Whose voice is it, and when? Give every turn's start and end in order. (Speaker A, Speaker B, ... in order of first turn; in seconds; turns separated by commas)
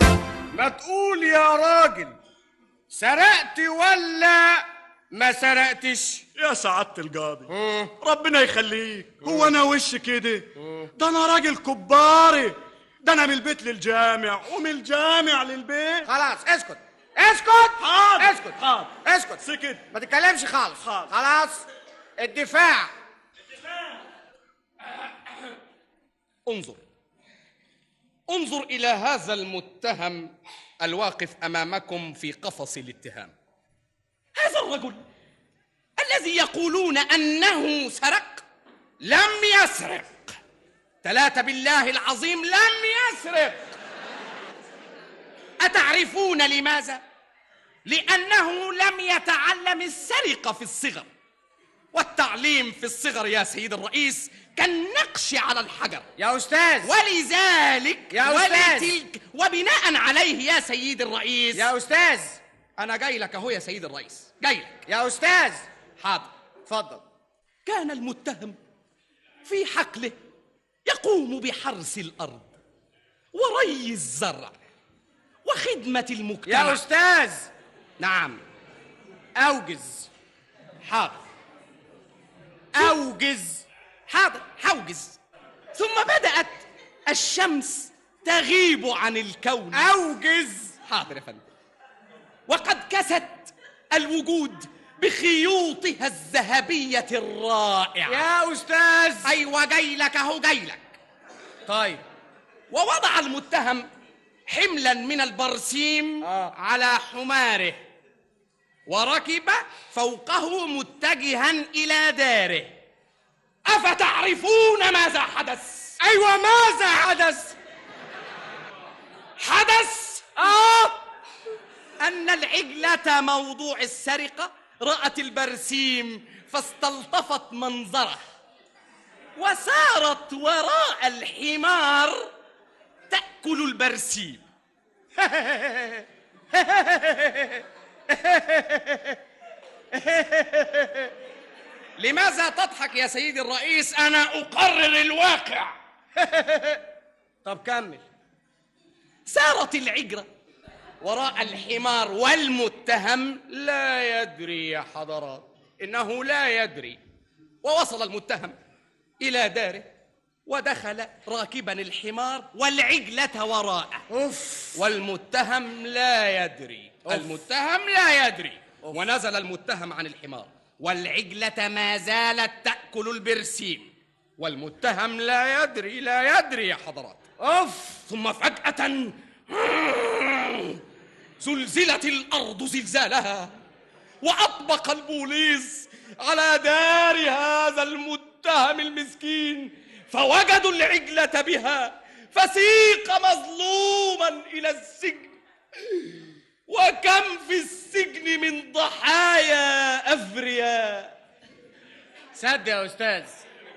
Speaker A: 0.5-2.2, Speaker A: 2.9-6.2, Speaker B: 6.4-16.1, Speaker A: 7.5-7.9, Speaker A: 16.0-21.6, Speaker B: 17.8-19.9, Speaker A: 22.2-22.9, Speaker C: 26.5-26.8, Speaker C: 28.3-33.3, Speaker C: 34.4-35.0, Speaker C: 36.0-38.4, Speaker C: 39.0-40.4, Speaker C: 41.0-43.6, Speaker C: 45.6-47.0, Speaker C: 47.9-51.1, Speaker C: 51.9-56.1, Speaker A: 56.2-56.9, Speaker C: 56.8-61.7, Speaker A: 58.1-58.9, Speaker A: 61.5-62.4, Speaker C: 62.8-64.8, Speaker A: 64.9-65.7, Speaker C: 66.0-66.3, Speaker A: 66.7-67.0, Speaker C: 67.7-68.6, Speaker C: 69.5-70.2, Speaker C: 70.9-72.6, Speaker C: 73.3-74.5, Speaker C: 75.4-76.8, Speaker A: 76.5-77.5, Speaker C: 78.0-78.4, Speaker A: 79.4-80.1, Speaker C: 80.8-81.2, Speaker A: 82.7-83.7, Speaker C: 84.1-85.2, Speaker C: 85.7-89.9, Speaker A: 89.7-90.8, Speaker C: 90.9-91.5, Speaker C: 92.5-98.2, Speaker A: 98.1-99.4, Speaker C: 99.2-101.0, Speaker A: 101.7-102.0, Speaker C: 102.7-103.9, Speaker C: 104.5-107.8, Speaker A: 106.2-106.5, Speaker C: 108.9-112.7, Speaker C: 113.7-116.0, Speaker A: 116.0-117.6, Speaker C: 119.4-120.4, Speaker A: 120.4-121.0, Speaker C: 122.0-128.2, Speaker C: 129.4-132.3, Speaker C: 133.1-134.4, Speaker A: 135.2-139.2, Speaker A: 139.9-141.1, Speaker C: 142.0-145.7, Speaker A: 146.2-146.8, Speaker A: 147.4-148.0, Speaker C: 149.3-150.3, Speaker C: 151.0-157.0, Speaker C: 157.6-158.6, Speaker C: 159.2-159.9, Speaker C: 160.5-164.1, Speaker A: 164.1-164.8, Speaker C: 164.7-177.2, Speaker A: 167.1-167.4, Speaker A: 177.4-178.0, Speaker C: 178.0-180.8, Speaker C: 181.4-183.6, Speaker C: 184.2-195.3, Speaker C: 196.7-201.1, Speaker A: 202.3-203.4